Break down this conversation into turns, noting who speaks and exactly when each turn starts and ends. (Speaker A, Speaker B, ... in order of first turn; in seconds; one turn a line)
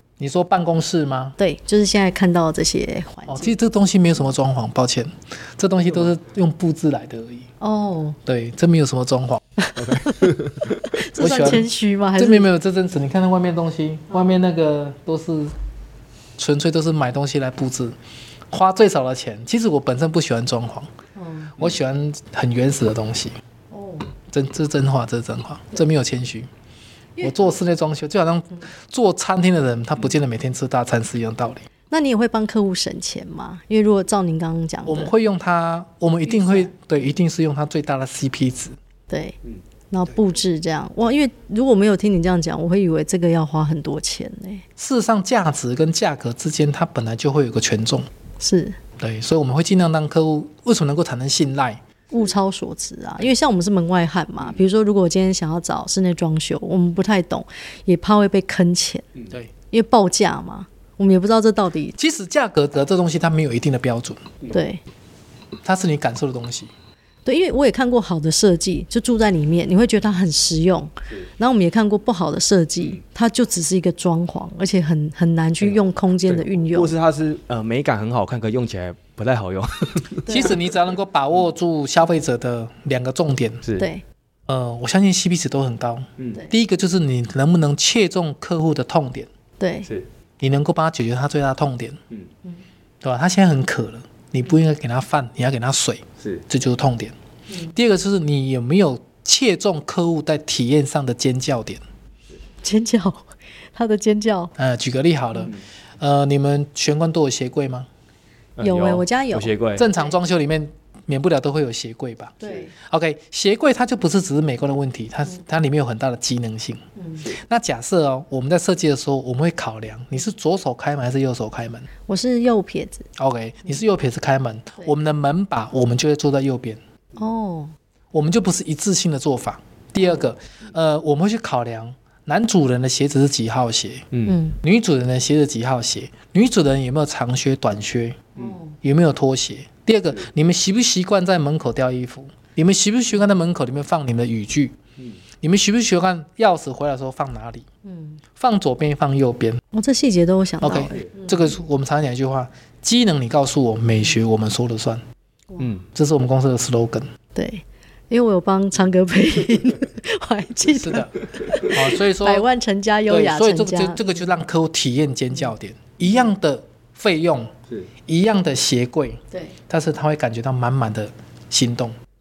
Speaker A: 0.2-1.4
Speaker B: 1.4-3.5
Speaker A: 3.3-7.5
Speaker B: 7.6-8.2
Speaker A: 8.3-9.4
Speaker B: 9.6-10.1
Speaker C: 9.8-11.0
Speaker B: 10.8-12.5
Speaker A: 11.2-15.5
Speaker A: 16.4-18.0
Speaker A: 18.5-20.9
Speaker B: 21.2-21.6
Speaker A: 21.6-23.3
Speaker B: 23.7-24.1
Speaker A: 24.3-26.5
Speaker A: 27.2-31.7
Speaker B: 31.9-35.1
Speaker A: 34.9-38.8
Speaker B: 39.1-39.4
Speaker B: 39.9-44.7
Speaker A: 44.8-48.1
Speaker B: 48.4-48.8
Speaker A: 49.0-51.8
Speaker B: 52.1-59.0
Speaker B: 59.7-62.0
Speaker A: 62.0-64.3
Speaker B: 64.5-64.8
Speaker A: 65.6-66.7
Speaker B: 67.2-76.9
Speaker C: 76.3-80.2
Speaker B: 80.3-80.6
Speaker A: 80.3-83.6
Speaker B: 83.8-84.0
Speaker A: 84.5-89.3
Speaker B: 89.6-89.9
Speaker A: 90.4-92.0
Speaker A: 93.0-97.1
Speaker B: 97.5-97.8
Speaker A: 97.7-101.8
Speaker B: 102.6-104.5
Speaker A: 104.6-107.9
Speaker C: 108.6-109.9
Speaker B: 108.6-110.0
Speaker A: 109.8-121.9
Speaker B: 112.4-112.7
Speaker B: 122.1-123.1
Speaker A: 123.2-126.8
Speaker B: 127.2-127.8
Speaker A: 128.1-134.1
Speaker C: 134.1-134.4
Speaker B: 134.3-134.6
Speaker A: 134.6-144.8
Speaker B: 138.4-138.8
Speaker A: 145.4-147.7
Speaker B: 147.8-148.2
Speaker A: 148.3-149.6
Speaker B: 149.7-151.4
Speaker A: 150.6-155.0
Speaker C: 155.6-155.9
Speaker A: 155.9-157.1
Speaker B: 157.3-164.2
Speaker A: 160.7-161.1
Speaker A: 161.6-162.5
Speaker A: 163.1-167.5
Speaker A: 168.1-172.0
Speaker B: 169.3-169.6